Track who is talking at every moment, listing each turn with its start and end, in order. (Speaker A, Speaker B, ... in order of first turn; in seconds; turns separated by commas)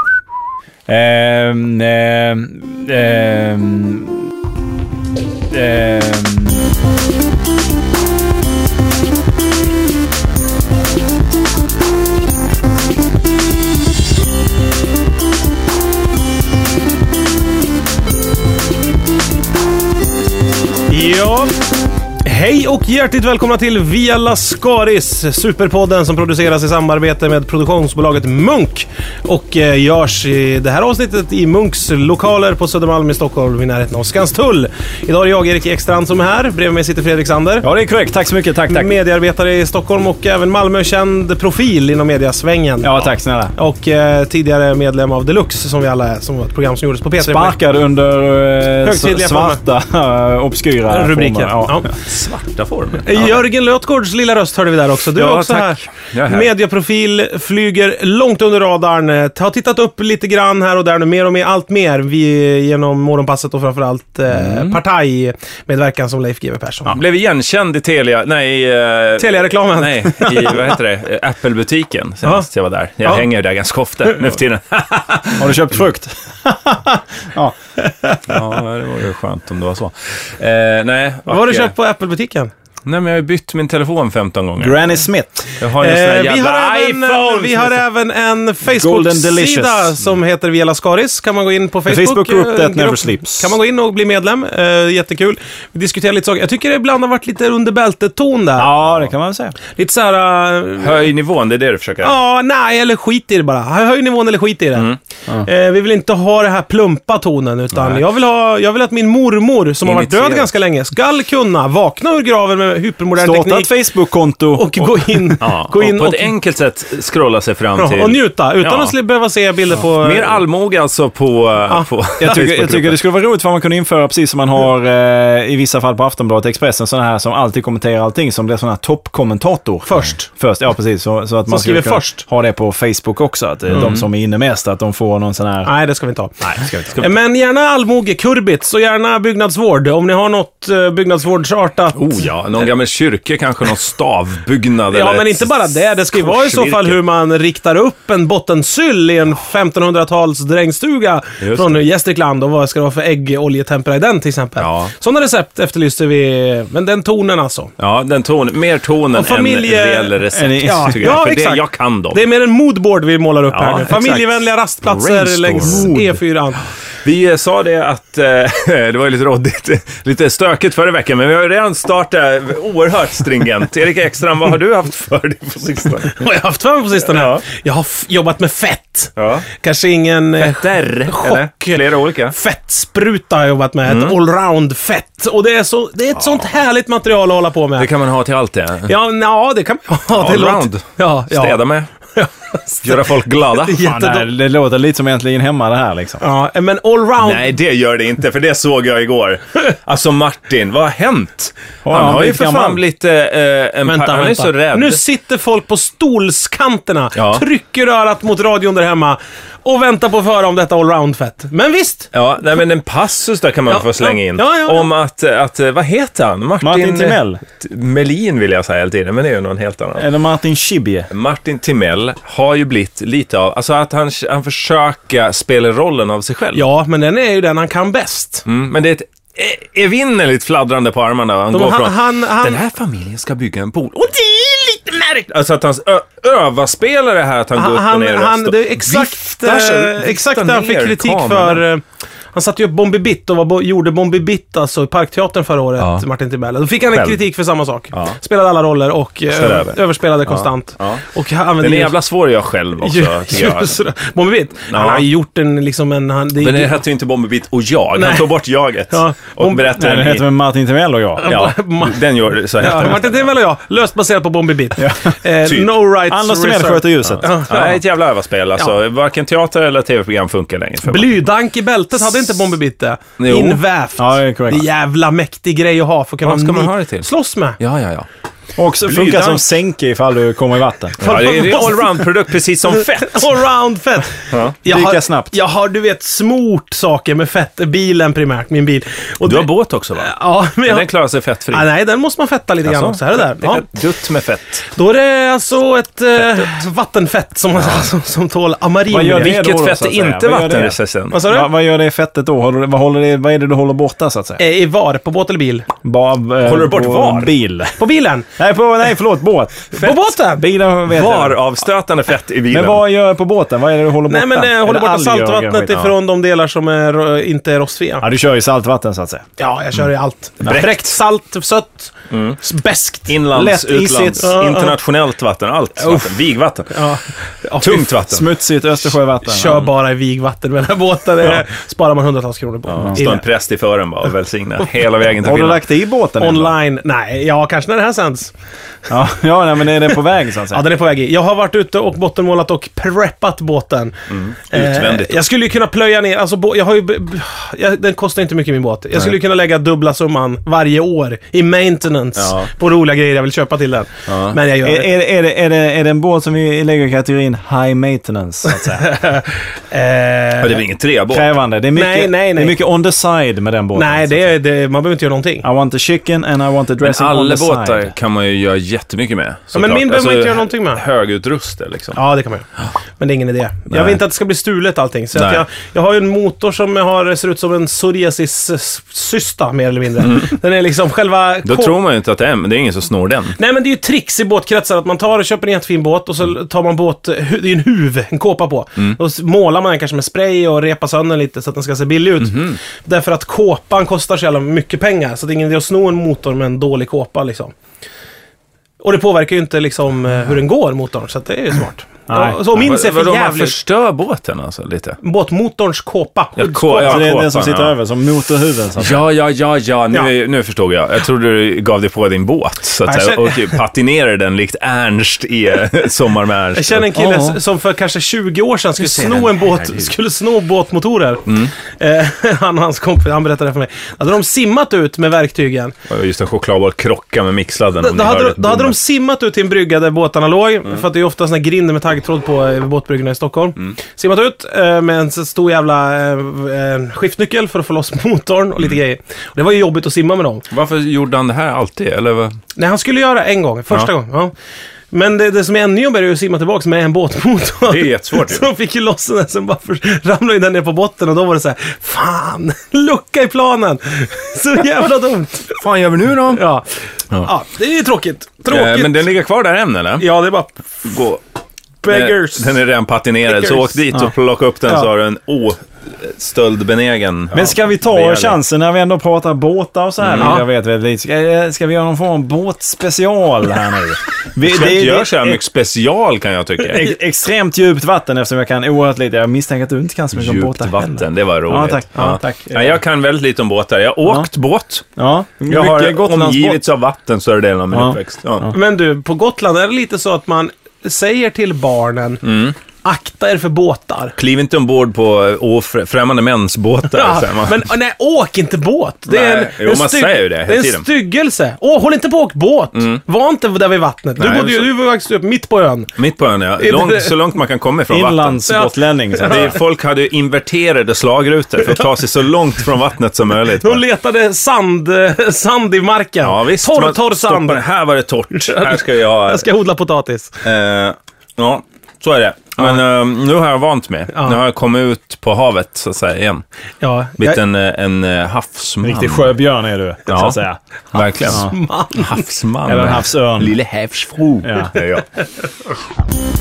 Speaker A: 0.9-4.3, Speaker A: 5.5-6.7, Speaker B: 20.9-21.5, Speaker B: 22.2-37.6, Speaker A: 37.6-38.9, Speaker B: 38.7-43.0, Speaker A: 42.8-43.5, Speaker B: 43.5-47.5, Speaker A: 47.2-51.9, Speaker B: 48.8-49.6, Speaker B: 50.9-51.9, Speaker C: 51.9-53.4, Speaker B: 53.0-67.0, Speaker C: 55.1-56.5, Speaker C: 64.3-64.8, Speaker C: 66.9-75.5, Speaker B: 69.2-70.7, Speaker A: 75.3-77.5, Speaker C: 78.3-81.7, Speaker B: 81.2-82.5, Speaker C: 82.8-84.8, Speaker A: 84.6-85.5, Speaker C: 85.6-87.8, Speaker B: 85.8-98.7, Speaker A: 88.6-89.9, Speaker A: 91.8-93.5, Speaker A: 98.6-99.5, Speaker B: 99.7-101.1, Speaker C: 100.8-102.2, Speaker B: 102.0-113.7, Speaker C: 109.8-110.5, Speaker A: 113.2-115.3, Speaker B: 114.5-116.3, Speaker C: 115.4-118.9, Speaker B: 117.8-120.4, Speaker C: 119.8-123.0, Speaker A: 122.2-135.7, Speaker B: 129.8-130.3, Speaker B: 131.5-132.2, Speaker C: 133.7-134.0, Speaker B: 135.7-136.3, Speaker C: 136.5-137.0, Speaker B: 137.0-142.3, Speaker C: 141.9-147.0, Speaker B: 144.9-157.7, Speaker C: 151.4-151.8, Speaker C: 154.6-154.9, Speaker C: 157.8-162.2, Speaker B: 159.1-166.6, Speaker A: 160.3-161.1, Speaker C: 163.5-164.4, Speaker A: 164.9-166.2, Speaker C: 165.0-165.9, Speaker C: 167.0-176.2, Speaker B: 176.1-187.9, Speaker C: 177.1-177.4, Speaker C: 179.2-179.4, Speaker C: 180.4-182.3, Speaker C: 183.9-184.2, Speaker C: 187.8-188.9, Speaker B: 188.8-194.3, Speaker C: 190.1-191.9, Speaker C: 192.8-193.8, Speaker A: 193.8-196.2, Speaker B: 196.2-197.6, Speaker C: 197.2-205.0, Speaker A: 201.8-202.8, Speaker B: 203.8-212.1, Speaker C: 207.1-207.4, Speaker C: 212.1-220.1, Speaker B: 213.7-214.9, Speaker A: 216.6-217.4, Speaker A: 219.9-221.1, Speaker C: 221.1-226.6, Speaker B: 226.5-228.4, Speaker C: 228.5-241.6, Speaker B: 231.5-232.6, Speaker B: 237.5-252.0, Speaker C: 245.8-246.0, Speaker C: 246.9-247.2, Speaker C: 247.9-248.2, Speaker C: 249.3-251.0, Speaker C: 251.6-253.8, Speaker B: 252.8-256.8, Speaker C: 254.7-255.1, Speaker C: 256.4-260.2, Speaker B: 257.9-258.3, Speaker B: 258.9-259.3, Speaker A: 259.4-261.3, Speaker B: 261.2-267.8, Speaker C: 261.2-263.3, Speaker A: 264.8-265.1, Speaker C: 265.4-265.7, Speaker A: 266.1-267.3, Speaker C: 267.0-271.2, Speaker B: 270.8-277.6, Speaker C: 273.2-273.6, Speaker A: 274.0-274.6, Speaker C: 276.2-277.1, Speaker C: 277.6-278.1, Speaker A: 278.6-281.2, Speaker C: 278.9-279.4, Speaker B: 281.0-282.1, Speaker C: 281.0-283.3, Speaker B: 282.7-290.9, Speaker A: 284.7-285.3, Speaker C: 289.2-291.7, Speaker B: 291.5-293.7, Speaker C: 292.6-294.6, Speaker B: 294.7-299.4, Speaker A: 298.9-304.4, Speaker C: 299.1-301.2, Speaker B: 301.1-301.5, Speaker B: 304.4-305.7, Speaker A: 305.8-307.8, Speaker C: 306.4-307.3, Speaker B: 307.8-308.3, Speaker A: 308.3-311.4, Speaker B: 309.7-310.4, Speaker C: 310.9-312.8, Speaker A: 312.5-315.9, Speaker B: 314.1-318.1, Speaker A: 318.0-319.2, Speaker B: 319.4-323.2, Speaker C: 320.4-320.9, Speaker C: 322.1-322.4, Speaker C: 323.1-326.8, Speaker A: 323.3-324.4, Speaker B: 324.2-324.7, Speaker B: 325.8-326.1, Speaker B: 326.7-327.9, Speaker C: 327.6-328.3, Speaker A: 328.1-329.6, Speaker B: 329.2-333.2, Speaker C: 332.7-335.6, Speaker A: 335.2-336.5, Speaker B: 336.2-338.3, Speaker A: 338.9-340.6, Speaker B: 340.5-343.9, Speaker C: 344.1-345.2, Speaker B: 344.5-354.9, Speaker C: 352.2-352.5, Speaker C: 354.1-354.4, Speaker A: 354.6-358.9, Speaker B: 358.7-360.6, Speaker C: 360.4-361.3, Speaker A: 361.1-364.3, Speaker B: 361.7-362.6, Speaker B: 363.7-365.4, Speaker A: 365.4-367.9, Speaker C: 366.8-372.0, Speaker B: 369.5-370.8, Speaker B: 371.9-381.8, Speaker C: 373.7-374.0, Speaker C: 375.1-375.4, Speaker C: 380.0-380.3, Speaker C: 381.4-383.4, Speaker B: 383.4-397.5, Speaker C: 392.2-392.6, Speaker B: 398.8-403.6, Speaker A: 402.1-402.4, Speaker C: 402.5-405.0, Speaker B: 405.0-407.1, Speaker C: 406.4-407.7, Speaker A: 406.8-409.0, Speaker C: 408.8-416.9, Speaker B: 412.8-413.6, Speaker B: 416.5-425.7, Speaker A: 416.9-417.4, Speaker C: 418.8-419.9, Speaker C: 421.2-421.5, Speaker C: 425.9-428.8, Speaker B: 427.8-440.4, Speaker C: 440.5-442.4, Speaker B: 442.6-444.3, Speaker B: 444.9-455.6, Speaker C: 447.7-448.5, Speaker C: 455.6-456.5, Speaker B: 456.3-459.1, Speaker C: 458.5-460.1, Speaker B: 460.0-460.6, Speaker C: 460.8-461.2, Speaker B: 461.8-462.6, Speaker C: 461.9-468.4, Speaker B: 463.3-463.8, Speaker A: 467.3-475.4, Speaker C: 470.0-470.4, Speaker B: 470.2-470.4, Speaker C: 474.4-476.9, Speaker A: 476.7-482.8, Speaker C: 480.1-484.9, Speaker A: 485.0-486.6, Speaker C: 485.4-488.5, Speaker A: 487.7-488.5, Speaker B: 488.5-492.2, Speaker C: 492.2-492.5, Speaker B: 492.8-494.1, Speaker C: 494.2-497.7, Speaker B: 496.9-505.9, Speaker C: 499.1-500.9, Speaker C: 502.7-503.0, Speaker C: 504.2-504.7, Speaker C: 505.9-508.4, Speaker B: 506.6-507.1, Speaker A: 507.9-509.5, Speaker B: 508.5-509.5, Speaker C: 509.2-513.8, Speaker B: 513.6-517.6, Speaker C: 516.2-519.5, Speaker B: 518.4-520.4, Speaker C: 520.4-526.4, Speaker B: 524.1-524.4, Speaker B: 526.8-527.4, Speaker C: 527.2-529.3, Speaker A: 528.8-530.6, Speaker C: 530.1-530.4, Speaker B: 530.9-532.2, Speaker C: 530.9-535.1, Speaker A: 531.3-531.5, Speaker A: 532.6-533.5, Speaker A: 534.4-534.8